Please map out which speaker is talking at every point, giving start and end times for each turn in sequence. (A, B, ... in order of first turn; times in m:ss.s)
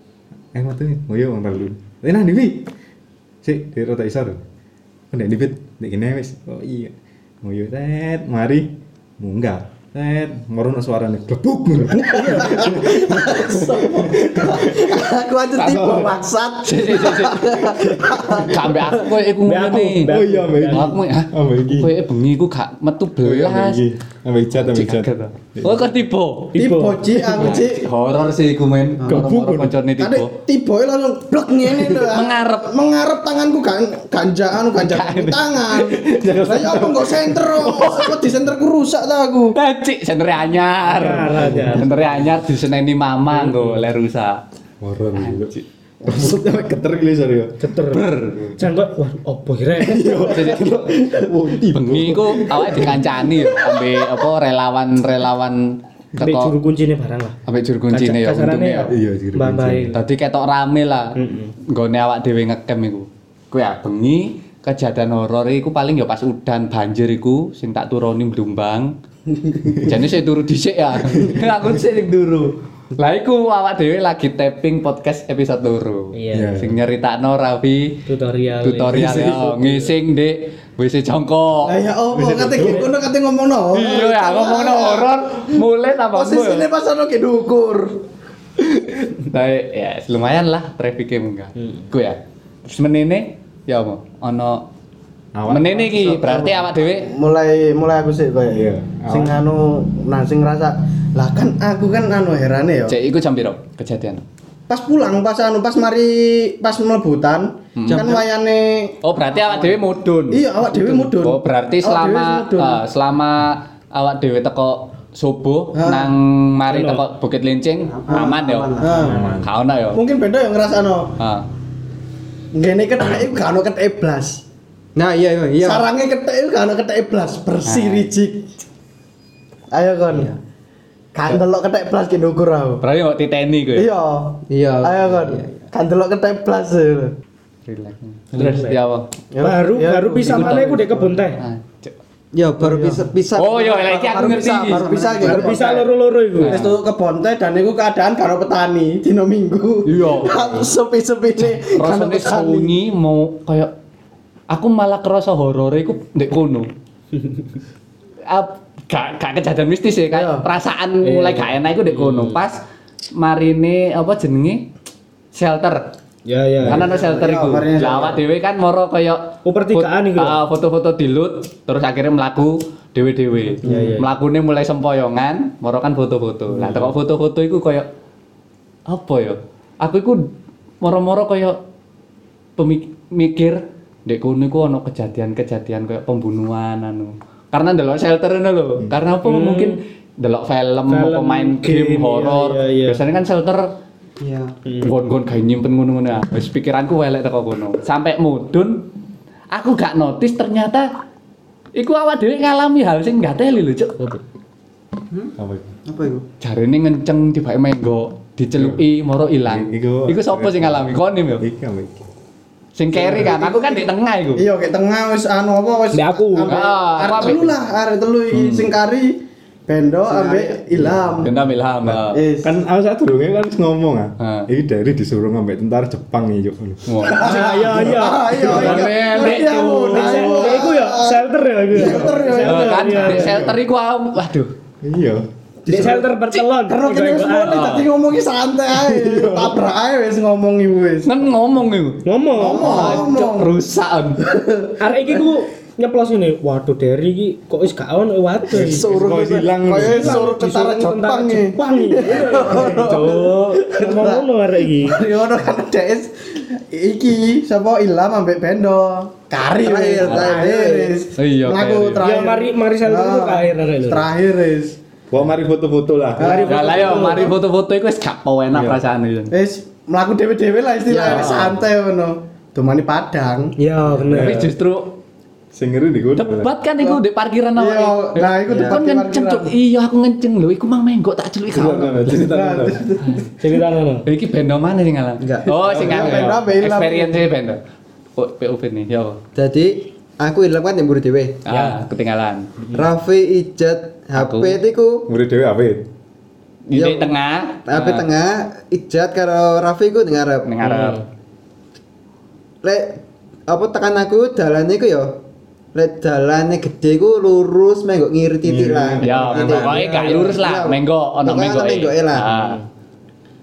0:00.5-0:02.7 A
0:03.4-0:04.4 A
0:05.1-0:15.0 A
0:11.9-0:12.9 B
0:12.1-0:19.1 C
0:15.5-0:16.1 A
0:16.6-0:20.1 D
0:19.4-0:21.0 B
0:20.0-0:22.0 A
0:20.7-0:23.8 D
0:23.2-0:25.9 A
0:24.5-0:26.6 D
0:26.5-0:27.5 B
0:26.6-0:27.8 C
0:27.2-0:30.3 D
0:29.0-0:29.3 E
0:29.1-0:29.8 A
0:30.0-0:39.6 C
0:31.8-0:32.7 D
0:34.8-0:35.7 D
0:36.0-0:38.1 A
0:39.6-0:44.4 D
0:40.9-0:41.8 B
0:41.3-0:41.9 A
0:43.3-0:43.8 B
0:44.8-0:47.6 A
0:45.2-0:45.6 D
0:47.6-0:48.1 B
0:47.9-0:48.5 D
0:48.4-0:48.6 A
0:48.6-0:50.4 B
0:49.8-0:53.9 A
0:50.3-0:50.7 D
0:51.7-0:56.5 D
0:56.2-0:57.4 B
0:57.5-0:58.9 D
0:57.9-1:00.0 B
0:58.9-1:00.0 A
0:59.9-1:01.2 D
1:01.2-1:01.6 B
1:01.7-1:08.9 D
1:09.7-1:10.0 A
1:09.8-1:18.0 D
1:11.2-1:11.4 A
1:16.1-1:16.5 B
1:16.3-1:16.8 A
1:18.1-1:19.9 B
1:18.6-1:21.7 D
1:21.7-1:25.6 C
1:22.2-1:22.8 A
1:22.5-1:22.9 B
1:23.7-1:26.7 D
1:26.1-1:28.0 C
1:29.3-1:34.7 D
1:31.6-1:31.9 B
1:35.4-1:36.0 A
1:35.5-1:37.1 D
1:36.0-1:43.0 C
1:38.5-1:39.4 A
1:42.9-1:44.2 D
1:44.7-1:49.8 C
1:47.8-1:48.2 D
1:48.0-1:48.2 E
1:49.0-1:58.8 D
1:50.3-1:52.8 C
1:55.8-1:56.1 C
1:56.7-1:57.0 B
1:57.9-1:59.2 E
1:58.8-1:59.3 C
1:59.0-1:59.5 A
1:59.4-2:00.0 D
1:59.9-2:01.1 C
2:01.2-2:01.5 D
2:02.6-2:04.4 C
2:05.0-2:05.9 E
2:05.6-2:08.5 C
2:07.7-2:08.1 D
2:09.7-2:10.3 C
2:10.1-2:10.4 E
2:11.2-2:12.8 C
2:12.8-2:13.9 D
2:13.8-2:17.1 C
2:14.5-2:15.6 E
2:17.7-2:19.1 D
2:18.3-2:18.8 B
2:19.3-2:21.2 C
2:19.4-2:21.4 B
2:20.3-2:22.0 D
2:22.3-2:25.6 E
2:22.6-2:23.0 C
2:23.4-2:24.9 D
2:24.1-2:25.9 C
2:25.2-2:26.7 B
2:26.4-2:26.8 D
2:26.4-2:32.7 C
2:29.9-2:30.5 D
2:31.6-2:33.7 D
2:34.5-2:36.7 D
2:37.2-2:37.4 B
2:38.3-2:42.6 D
2:40.1-2:40.5 C
2:41.0-2:42.4 B
2:43.2-2:44.7 D
2:45.3-2:45.9 D
2:46.3-2:46.9 B
2:46.7-2:57.9 D
2:46.7-2:48.2 C
2:49.4-2:50.4 B
2:53.6-2:54.1 B
2:53.6-2:54.0 C
2:58.9-3:00.3 D
3:00.8-3:01.6 D
3:02.6-3:13.7 D
3:09.2-3:09.8 B
3:10.9-3:13.0 B
3:14.2-3:14.6 E
3:14.7-3:14.9 B
3:14.8-3:18.9 D
3:19.5-3:20.9 D
3:21.8-3:24.1 D
3:25.4-3:25.8 A
3:25.8-3:26.2 E
3:26.4-3:31.4 D
3:28.5-3:28.8 A
3:29.4-3:32.1 A
3:32.8-3:34.4 D
3:32.9-3:41.3 C
3:35.9-3:36.6 B
3:36.4-3:37.6 D
3:38.3-3:38.7 D
3:40.1-3:40.6 E
3:41.2-3:42.2 D
3:41.8-3:47.2 A
3:42.1-3:42.6 C
3:44.2-3:44.5 D
3:46.9-3:47.2 D
3:47.1-3:53.5 B
3:47.2-3:53.5 C
3:48.5-3:50.6 D
3:52.4-3:54.5 D
3:54.8-3:55.3 A
3:55.7-3:57.8 B
3:55.7-3:56.0 C
3:56.7-4:01.1 C
3:57.5-3:57.9 D
3:58.8-3:59.6 A
4:01.0-4:04.3 D
4:02.0-4:02.8 B
4:02.3-4:03.1 E
4:02.3-4:03.5 C
4:04.2-4:04.8 C
4:04.8-4:08.9 B
4:08.5-4:24.8 C
4:08.5-4:10.4 A
4:09.8-4:15.0 B
4:12.7-4:13.6 D
4:19.5-4:21.0 E
4:20.1-4:20.4 B
4:21.2-4:22.0 D
4:22.0-4:24.1 B
4:25.1-4:26.4 A
4:26.2-4:27.4 C
4:26.2-4:27.3 B
4:26.4-4:29.3 D
4:28.5-4:28.8 A
4:29.3-4:33.5 C
4:30.9-4:31.6 E
4:31.1-4:31.6 D
4:33.6-4:34.5 B
4:34.1-4:34.4 A
4:34.1-4:34.9 D
4:35.5-4:36.5 A
4:36.1-4:42.3 D
4:37.6-4:39.5 C
4:38.5-4:38.8 E
4:41.5-4:43.3 A
4:42.3-4:42.8 C
4:43.0-4:43.3 D
4:43.4-4:44.0 B
4:44.1-4:47.6 D
4:45.2-4:45.6 E
4:45.6-4:46.4 A
4:45.7-4:47.2 C
4:48.2-4:49.2 D
4:49.4-4:51.7 E
4:51.5-4:52.5 D
4:52.7-4:55.1 E
4:54.2-4:54.6 D
4:55.1-4:55.9 A
4:56.7-4:58.0 D
4:56.7-4:57.1 E
4:57.7-5:00.5 E
5:00.4-5:01.0 D
5:00.6-5:01.0 B
5:02.6-5:05.2 E
5:05.8-5:12.3 E
5:08.4-5:09.8 A
5:09.0-5:12.6 D
5:09.5-5:10.4 B
5:12.4-5:12.6 B